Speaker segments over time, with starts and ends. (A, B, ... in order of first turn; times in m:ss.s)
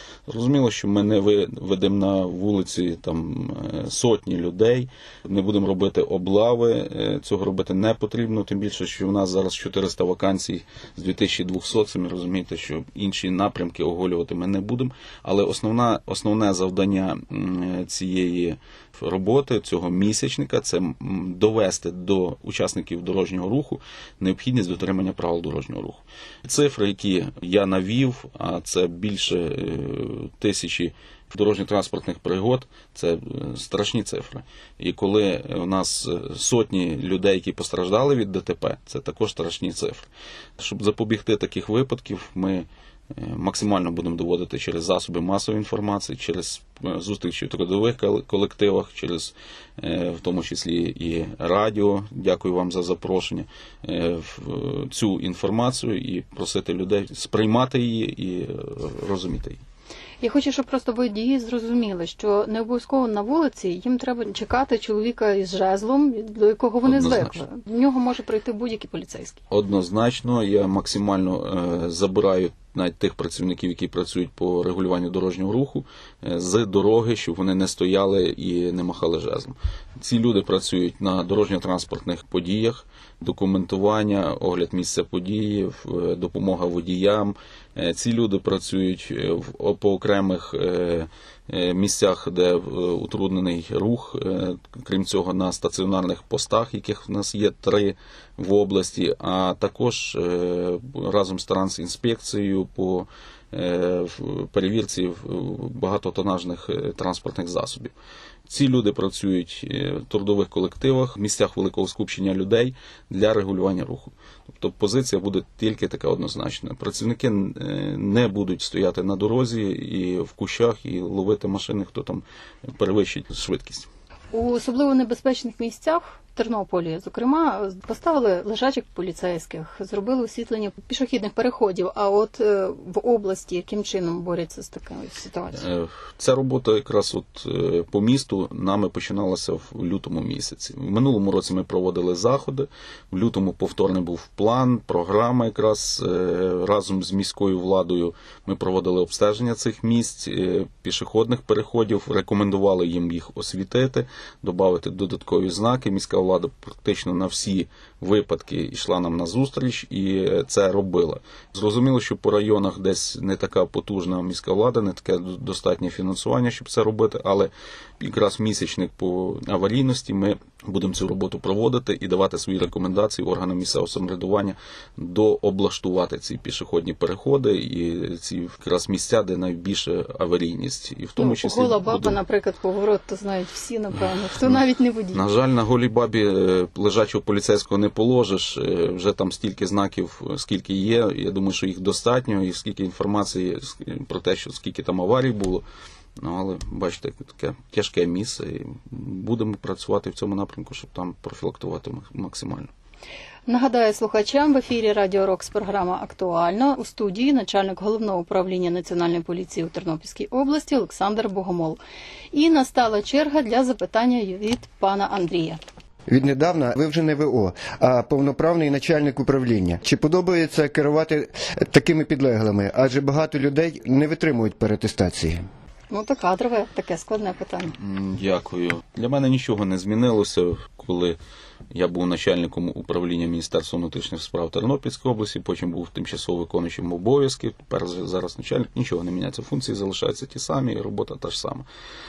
0:00.3-0:59.6 A
1:00.2-1:09.4 B
1:06.8-1:07.4 A
1:09.5-1:47.9 A
1:48.5-2:03.9 A
2:04.3-2:15.7 B
2:15.6-3:02.2 A
3:01.2-3:05.2 B
3:05.1-3:15.6 A
3:16.2-3:22.7 A
3:23.5-3:31.8 B
3:32.3-3:35.6 B
3:36.1-3:45.4 C
3:45.9-3:47.8 B
3:47.8-3:51.2 A
3:51.7-4:01.7 A